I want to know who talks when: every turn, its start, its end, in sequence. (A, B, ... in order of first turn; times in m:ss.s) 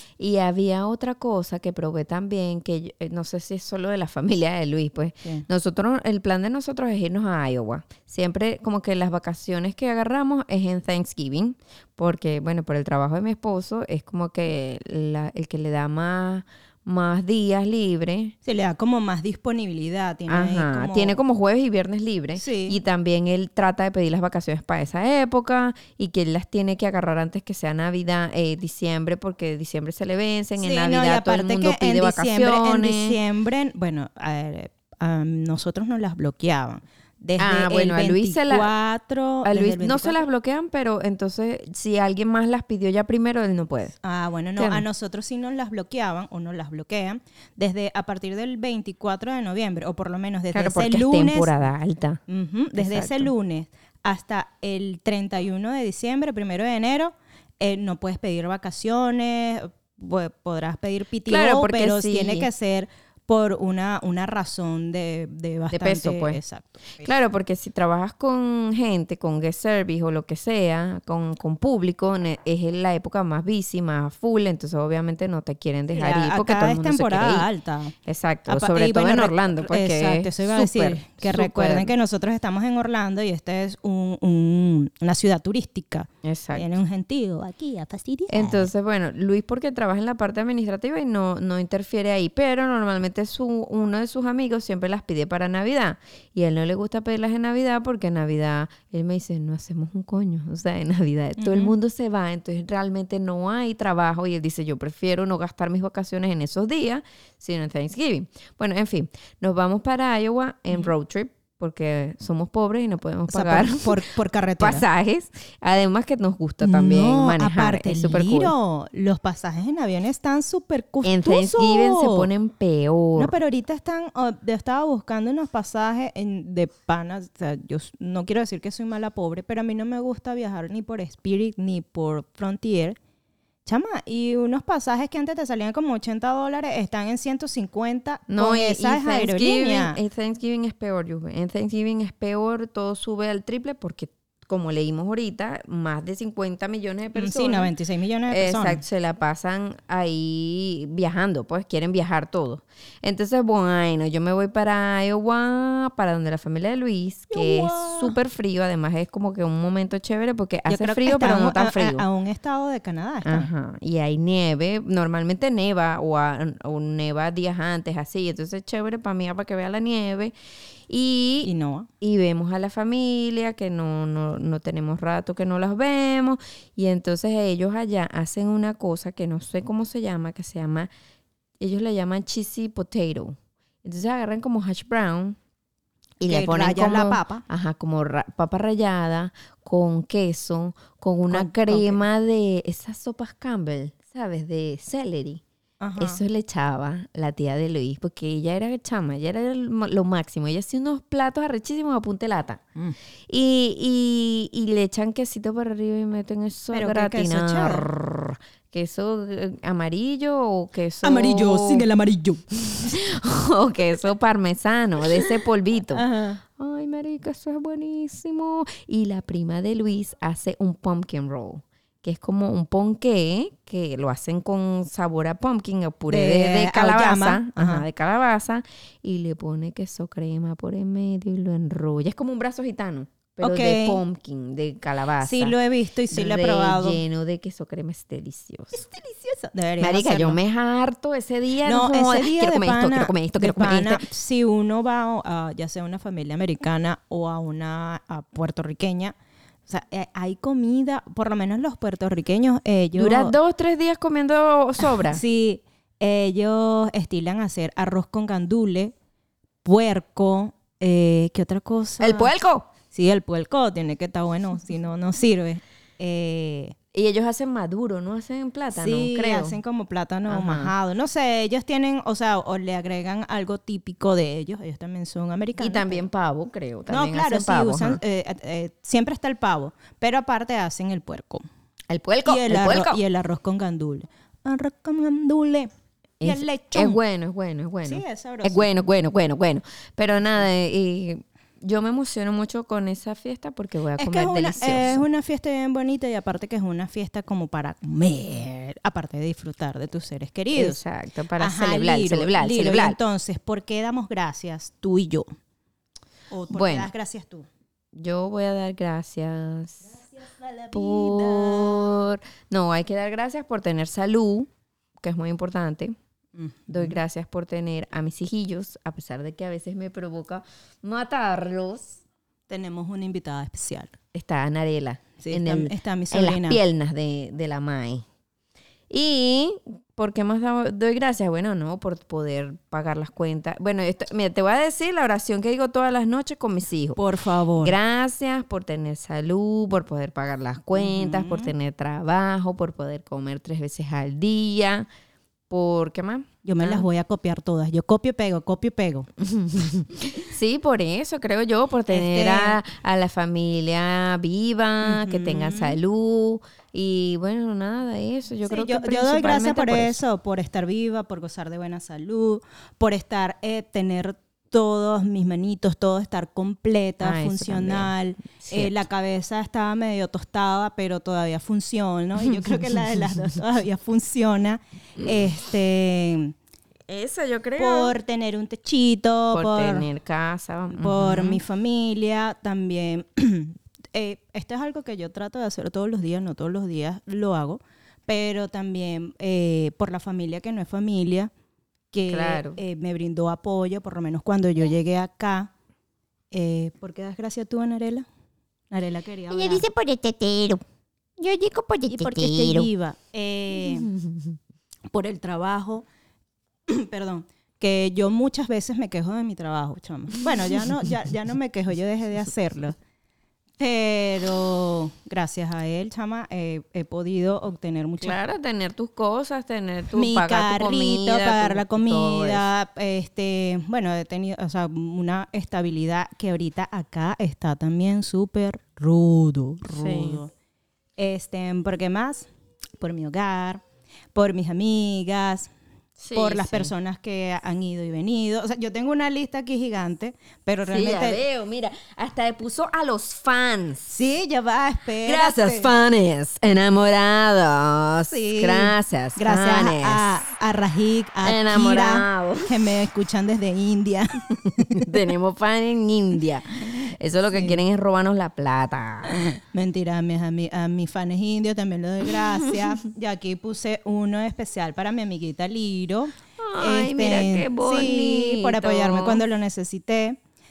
0:00.2-0:18.3 A
0:18.4-0:21.2 B
0:20.3-0:33.2 A
0:22.4-0:22.8 B
0:30.6-0:40.2 B
0:37.4-0:38.7 A
0:39.4-0:44.0 A
0:44.0-0:51.5 B
0:44.6-0:44.8 A
0:50.5-0:52.2 A
0:52.3-1:07.1 B
0:52.7-0:53.3 A
1:01.3-1:02.5 A
1:05.7-1:06.4 A
1:06.9-1:17.5 A
1:15.9-1:17.9 B
1:18.0-1:21.9 A
1:18.5-1:28.7 B
1:26.2-1:26.7 A
1:28.3-1:54.0 A
1:41.4-1:41.7 B
1:53.3-1:54.8 B
1:54.6-1:58.5 A
1:56.6-2:02.3 B
2:01.0-2:03.3 A
2:03.2-2:13.0 B
2:13.6-2:20.0 B
2:18.3-2:27.7 A
2:27.1-2:28.8 B
2:28.3-2:42.0 A
2:37.3-2:38.1 B
2:40.7-2:43.5 B
2:43.2-2:50.3 A
2:50.9-3:00.9 A
2:51.4-2:51.9 B
3:01.6-3:05.4 A
3:06.2-3:15.4 A
3:06.2-3:07.4 B
3:11.3-3:12.0 B
3:15.8-3:16.2 B
3:16.0-3:22.6 A
3:23.3-3:31.8 A
3:26.7-3:27.8 B
3:31.0-3:33.0 B
3:32.7-3:36.0 A
3:35.0-3:35.3 B
3:35.9-3:36.4 B
3:36.6-3:55.6 A
3:46.1-3:47.8 B
3:53.4-3:54.0 B
3:55.2-3:57.0 B
3:56.1-3:58.8 A
3:58.7-4:00.4 B
3:59.8-4:04.0 A
4:01.6-4:09.1 B
4:09.7-4:13.3 B
4:12.9-4:15.2 A
4:14.9-4:18.9 B
4:19.6-4:22.3 B
4:22.0-4:22.7 A
4:22.9-4:26.7 B
4:26.9-4:29.6 A
4:28.7-4:36.0 B
4:30.3-4:30.7 A
4:35.6-4:38.0 A
4:36.9-4:41.4 B
4:41.9-4:43.0 A
4:42.2-4:45.7 B
4:46.2-4:55.0 A
4:46.2-4:47.0 B
4:47.8-4:48.7 B
4:54.0-5:00.8 B
5:00.6-5:03.0 A
5:01.4-5:05.3 B
5:06.3-5:07.5 B
5:06.5-5:06.9 A
5:07.9-5:10.0 A
5:10.0-5:12.0 B
5:10.7-5:14.5 A
5:15.0-5:16.0 A
5:16.3-5:17.0 B
5:16.7-5:22.0 A
5:22.5-5:23.9 B
5:24.1-5:28.0 A
5:25.2-5:26.6 B
5:28.9-5:37.0 A
5:37.0-5:37.8 B
5:37.6-5:44.9 A
5:40.7-5:41.5 B
5:45.5-5:46.8 A
5:46.4-5:49.1 B
5:49.2-6:00.0 A
5:51.9-5:52.6 B
5:54.8-5:55.8 B
5:58.4-6:16.3 B
6:07.0-6:08.8 A
6:16.9-6:17.9 A
6:17.6-6:19.8 B
6:19.3-6:21.4 A
6:20.7-6:31.3 B
6:31.9-6:35.5 B
6:32.1-6:32.6 A
6:36.3-6:38.1 B
6:38.7-6:39.7 B
6:39.3-6:40.6 C
6:41.2-6:42.7 C
6:41.9-6:43.9 B
6:43.9-6:44.3 A
6:44.9-6:45.8 B
6:46.7-6:52.8 B
6:53.6-6:58.2 B
6:58.0-7:02.4 A
6:59.9-7:10.3 B
7:09.7-7:10.2 A
7:11.0-7:12.3 B
7:12.8-7:13.6 B
7:14.1-7:15.5 B
7:16.0-7:16.7 A
7:16.1-7:21.2 B
7:20.6-7:24.0 A
7:23.9-7:25.7 B
7:25.0-7:30.3 A
7:28.1-7:34.9 B
7:31.2-7:32.5 A
7:34.4-7:39.3 A
7:37.3-7:37.6 B
7:39.1-7:50.2 B
7:46.4-7:49.2 A